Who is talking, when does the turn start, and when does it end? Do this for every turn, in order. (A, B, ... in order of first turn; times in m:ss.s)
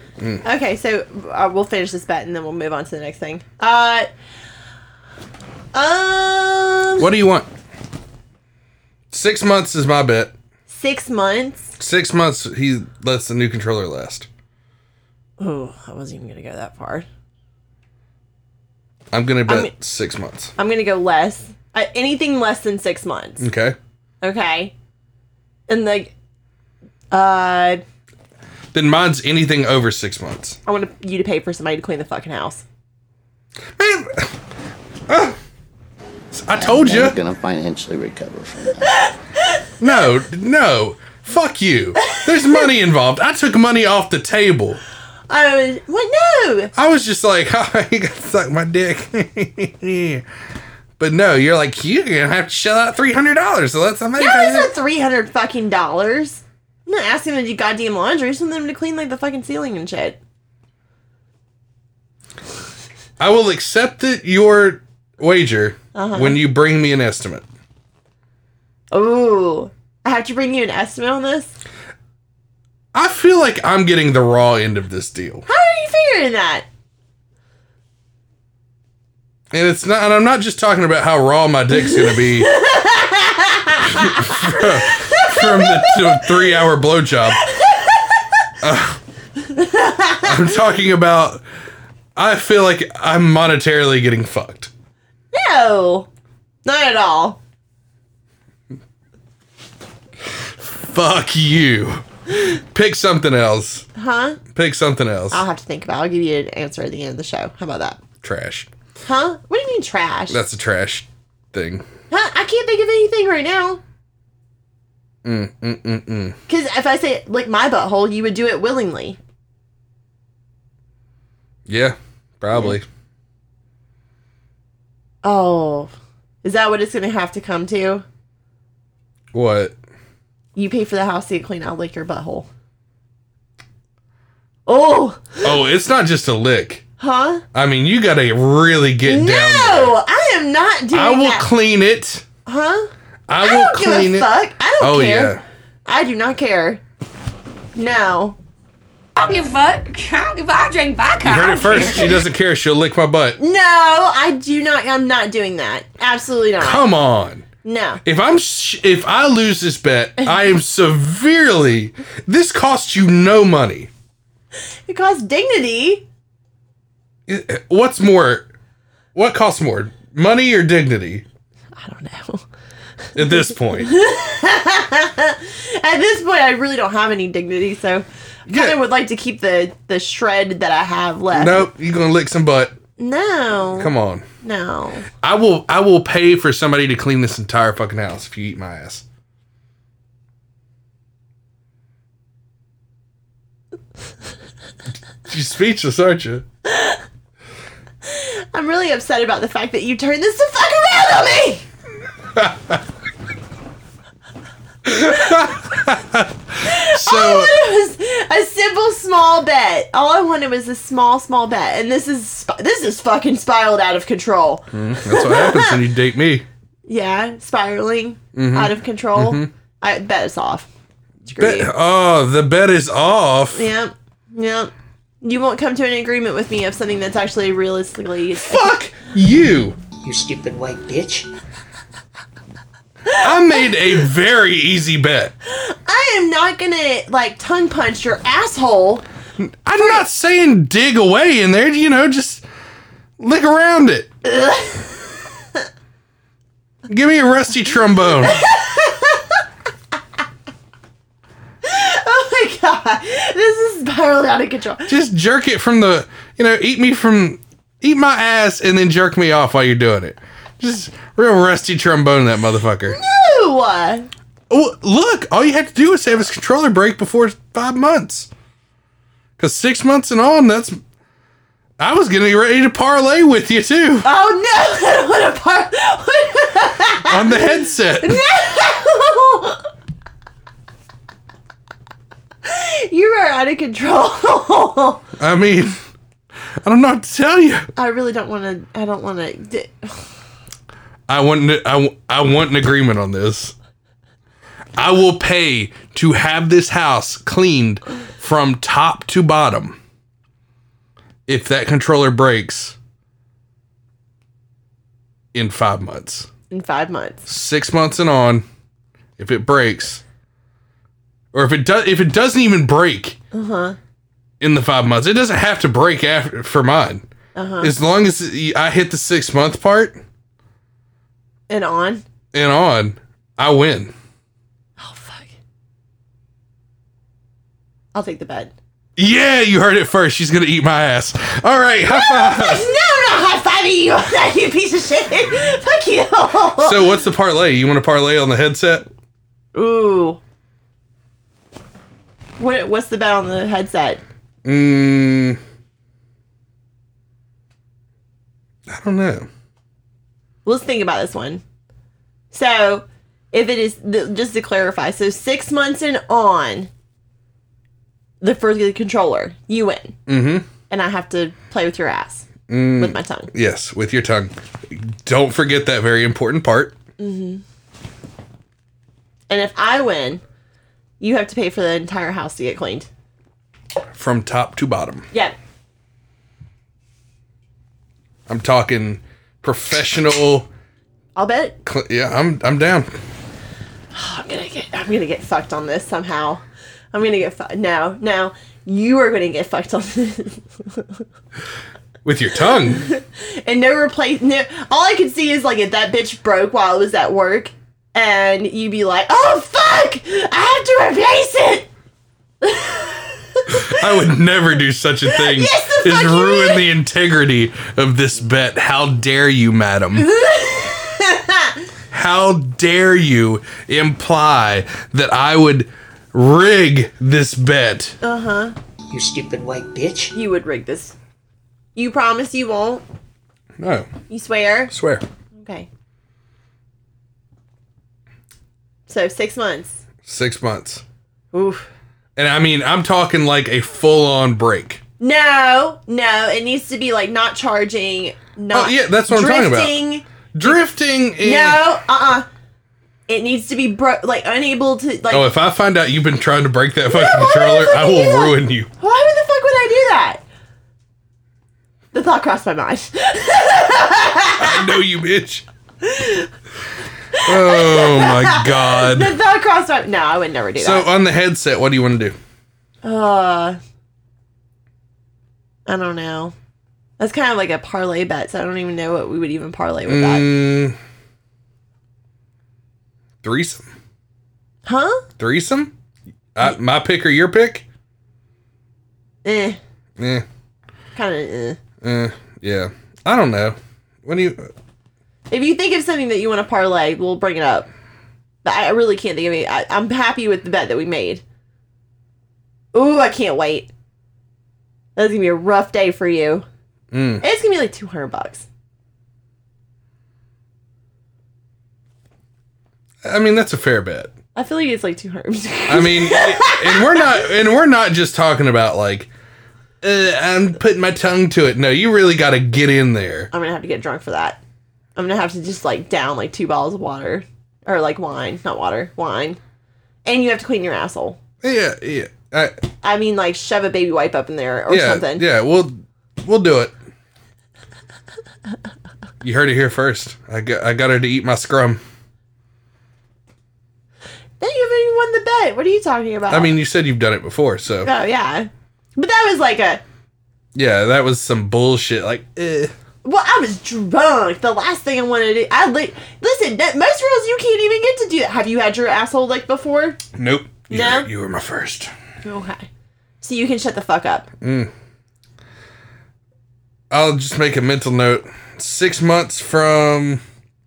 0:00.4-0:04.1 A
0:05.7-0:07.1 A
0:07.0-0:07.5 B
0:09.1-0:10.3 B
0:10.7-0:11.7 A
0:11.8-0:14.3 B
0:15.4-0:17.1 A
0:19.1-0:20.5 B
0:19.5-0:19.7 A
0:20.6-0:23.4 A
0:23.4-0:23.8 B
0:24.2-0:24.7 A
0:25.7-0:26.1 A
0:27.1-0:27.8 A
0:28.7-0:30.6 B
0:30.7-0:32.6 A
0:33.8-0:34.3 B
0:35.1-0:35.4 B
0:36.3-0:37.2 B
0:36.6-0:38.9 C
0:39.8-0:44.8 B
0:42.3-0:42.7 A
0:45.3-0:46.7 A
0:46.8-0:50.2 B
0:51.0-0:54.7 B
0:54.2-1:00.2 A
1:03.2-1:07.4 B
1:06.0-1:06.4 A
1:08.9-1:11.5 A
1:12.9-1:15.5 B
1:15.5-1:16.7 A
1:19.5-1:22.5 B
1:21.8-1:26.4 A
1:23.9-1:27.4 B
1:27.5-1:28.2 A
1:28.6-1:29.0 B
1:29.5-1:30.4 A
1:30.2-1:31.4 B
1:32.2-1:34.7 B
1:35.3-1:36.1 A
1:36.6-1:37.4 A
1:40.6-1:43.9 B
1:44.0-1:44.4 A
1:44.5-1:45.4 B
1:45.3-1:48.0 A
1:48.2-1:48.7 B
1:49.0-1:50.4 A
1:50.3-1:51.9 B
1:52.1-1:53.8 A
1:55.2-1:56.4 B
1:56.5-1:59.2 A
2:01.7-2:02.8 B
2:05.2-2:05.9 A
2:06.4-2:08.0 A
2:09.3-2:09.8 B
2:10.6-2:12.5 A
2:14.7-2:15.5 A
2:15.4-2:16.8 B
2:17.0-2:17.4 A
2:17.5-2:20.0 B
2:19.1-2:21.5 A
2:20.9-2:22.2 B
2:22.5-2:26.8 A
2:23.3-2:25.4 B
2:27.8-2:28.4 A
2:29.2-2:32.2 D
2:31.2-2:33.4 B
2:33.4-2:36.9 A
2:36.6-2:37.5 B
2:37.6-2:38.0 A
2:38.0-2:43.9 B
2:44.9-2:46.0 A
2:47.3-2:48.5 B
2:49.2-2:51.2 B
2:51.8-2:52.4 A
2:53.2-2:53.9 B
2:53.2-3:01.7 A
2:58.5-2:58.8 B
3:01.3-3:02.8 B
3:03.0-3:05.1 A
3:03.8-3:04.2 B
3:05.2-3:09.0 B
3:15.3-3:16.4 B
3:16.7-3:17.0 A
3:18.0-3:21.6 A
3:22.4-3:22.8 B
3:24.9-3:27.5 B
3:26.6-3:35.8 A
3:34.7-3:36.4 B
3:36.9-3:40.7 A
3:38.4-3:39.5 B
3:41.3-3:41.7 A
3:41.4-3:43.7 B
3:43.5-3:48.8 A
3:48.4-3:49.8 B
3:50.0-3:51.3 E
3:53.1-3:53.7 A
3:53.2-3:55.3 B
3:55.5-3:59.0 A
3:59.4-4:02.4 B
4:03.2-4:04.1 B
4:04.2-4:05.0 A
4:06.9-4:08.4 B
4:08.2-4:09.4 A
4:11.6-4:14.9 A
4:14.9-4:23.0 B
4:22.9-4:24.1 A
4:24.5-4:28.3 B
4:29.4-4:30.8 B
4:31.8-4:34.1 B
4:34.0-4:39.7 A
4:37.1-4:38.2 B
4:42.4-4:45.0 A
4:45.2-4:45.8 B
4:46.6-4:47.7 B
4:47.8-4:50.0 A
4:51.1-4:53.6 B
4:54.8-4:59.8 B
5:01.3-5:02.8 B
5:05.3-5:06.3 B
5:06.5-5:07.2 A
5:07.3-5:08.4 B
5:09.2-5:10.0 B
5:11.3-5:13.2 B
5:13.3-5:13.8 A
5:14.4-5:17.1 B
5:17.4-5:17.7 A
5:17.6-5:20.0 B
5:21.5-5:22.0 A
5:22.3-5:23.9 B
5:24.8-5:25.4 A
5:27.9-5:28.5 A
5:29.0-5:32.7 B
5:31.9-5:37.0 A
5:36.6-5:38.9 B
5:39.5-5:40.2 A
5:42.4-5:44.0 A
5:44.4-5:45.4 B
5:48.7-5:49.3 B
5:50.4-5:51.4 A
5:52.3-5:56.7 A
5:58.2-6:00.0 A
6:00.1-6:00.5 B
6:00.7-6:03.3 A
6:02.5-6:06.8 B
6:07.0-6:07.4 A
6:09.3-6:10.2 A
6:11.0-6:12.9 A
6:13.9-6:15.1 B
6:18.3-6:20.5 B
6:21.2-6:21.6 A
6:21.6-6:22.9 B
6:23.9-6:26.4 A
6:26.9-6:31.0 A
6:32.0-6:32.9 B
6:32.8-6:41.7 A
6:42.4-6:43.8 A
6:43.5-6:50.1 B
6:45.1-6:46.7 A
6:50.0-6:51.6 A
6:51.9-6:58.0 B
6:58.0-6:58.6 A
6:58.9-7:00.1 E
7:00.1-7:01.0 A
7:01.8-7:02.8 A
7:03.6-7:03.9 B
7:04.1-7:04.7 A
7:04.7-7:05.0 B
7:05.4-7:05.7 A
7:08.9-7:09.8 A
7:10.1-7:10.8 B
7:11.3-7:11.7 A
7:12.2-7:14.8 B
7:15.0-7:20.6 A
7:18.5-7:19.8 B
7:20.3-7:21.6 B
7:21.2-7:22.3 A
7:23.1-7:25.3 A
7:25.1-7:28.7 B
7:26.9-7:30.2 A
7:31.9-7:34.7 A
7:34.4-7:35.4 B
7:35.8-7:36.3 A
7:37.2-7:40.9 A
7:37.2-7:39.1 B
7:40.6-7:42.2 B
7:42.8-7:43.6 A
7:45.7-7:46.4 A
7:47.0-7:50.3 A
7:49.9-7:50.8 B
7:53.2-7:53.6 B
7:54.6-7:55.0 A
7:55.2-7:55.7 B
7:56.4-7:57.6 B
7:59.2-7:59.6 A
8:00.0-8:00.3 B
8:01.0-8:01.6 A
8:01.8-8:04.5 B
8:05.3-8:07.7 A
8:08.4-8:11.2 A
8:12.7-8:13.7 A
8:15.0-8:16.4 A
8:16.9-8:17.2 B
8:17.2-8:18.4 A
8:23.0-8:24.1 B
8:24.4-8:27.2 A
8:25.7-8:29.1 B
8:29.8-8:33.3 B
8:33.3-8:34.4 A
8:35.0-8:39.4 A
8:40.0-8:41.2 A
8:41.4-8:42.6 B
8:42.8-8:45.2 A
8:44.7-8:46.8 B
8:49.2-8:51.8 B
8:54.4-8:56.5 A
8:56.3-8:57.9 B
8:57.8-8:59.8 A
9:00.6-9:02.7 B
9:03.0-9:10.0 A
9:10.2-9:11.9 B
9:10.7-9:11.1 A
9:12.2-9:12.7 A
9:13.2-9:14.3 A
9:14.4-9:14.7 B
9:16.9-9:20.2 B